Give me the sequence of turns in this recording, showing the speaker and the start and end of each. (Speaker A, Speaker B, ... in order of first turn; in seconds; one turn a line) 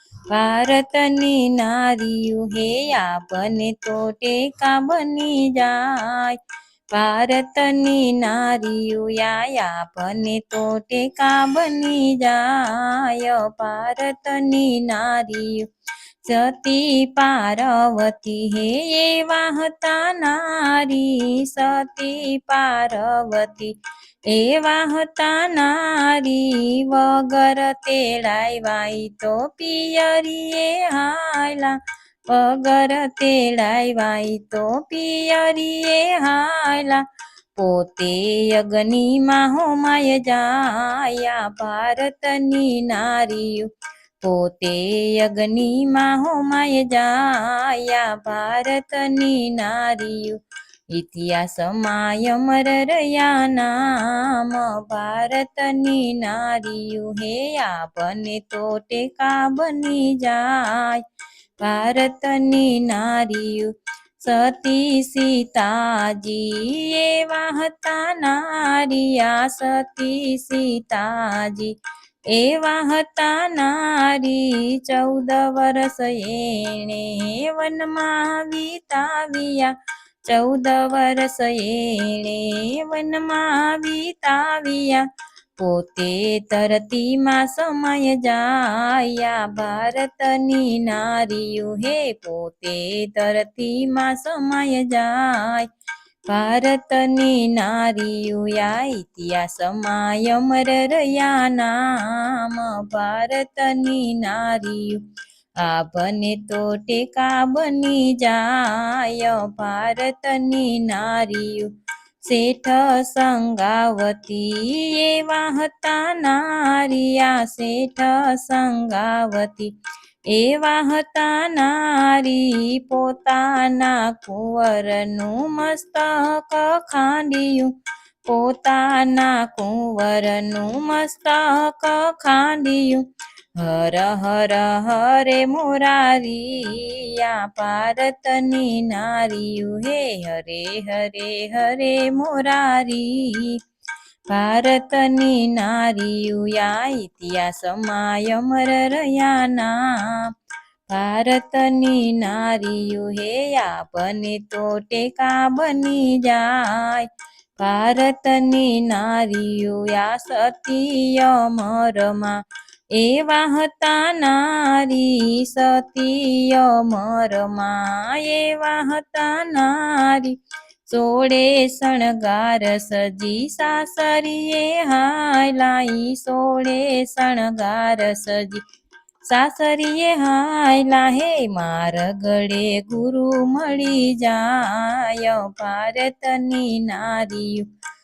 Speaker A: 0.3-6.4
Speaker A: 6.9-15.7
Speaker A: 16.2-37.0
Speaker A: 37.5-43.7
Speaker A: 44.2-50.4
Speaker A: 50.9-61.0
Speaker A: 61.6-71.8
Speaker A: 72.3-85.0
Speaker A: 85.6-95.7
Speaker A: 96.3-105.0
Speaker A: 105.6-119.7
Speaker A: 120.3-143.6
Speaker A: 144.3-150.3
Speaker A: 150.9-178.6
Speaker A: 179.2-187.7